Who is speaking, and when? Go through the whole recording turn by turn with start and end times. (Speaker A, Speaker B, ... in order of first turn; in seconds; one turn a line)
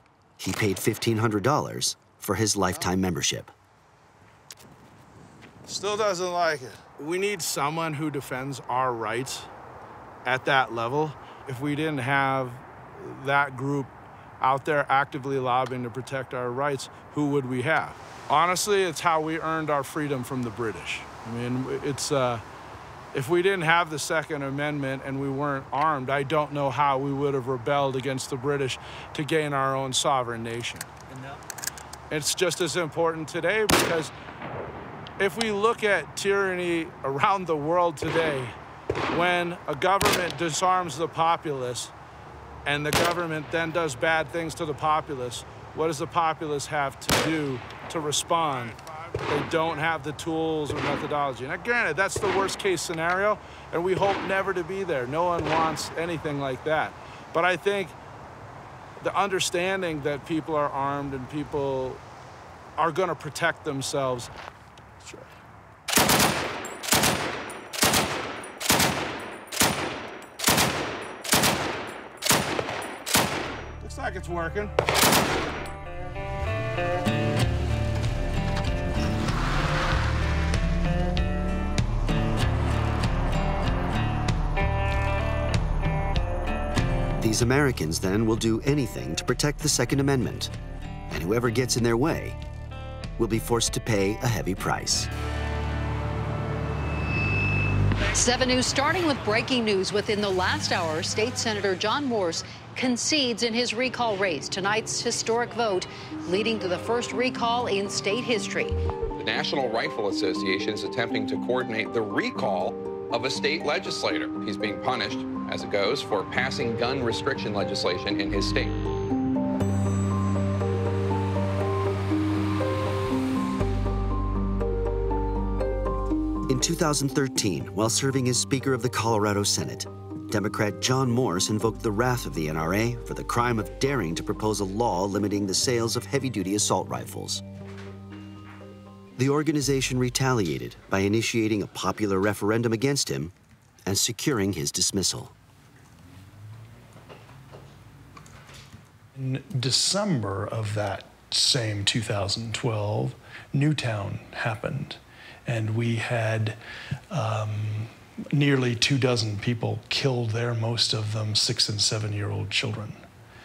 Speaker A: 0.4-3.5
Speaker B: 5.7-9.5
Speaker B: 10.2-22.4
Speaker B: 23.1-30.9
Speaker B: 32.1-34.1
Speaker B: 35.2-38.5
Speaker B: 39.1-41.9
Speaker B: 42.7-58.0
Speaker B: 59.0-62.0
Speaker B: 62.8-64.3
Speaker B: 65.0-65.3
Speaker B: 73.8-74.7
Speaker A: 87.2-90.5
Speaker A: 91.1-92.4
Speaker A: 93.2-95.1
Speaker C: 98.1-108.8
Speaker D: 109.2-118.8
Speaker A: 126.5-137.4
Speaker A: 139.2-143.3
Speaker A: 143.9-145.3
Speaker E: 149.2-156.6
Speaker E: 157.1-163.1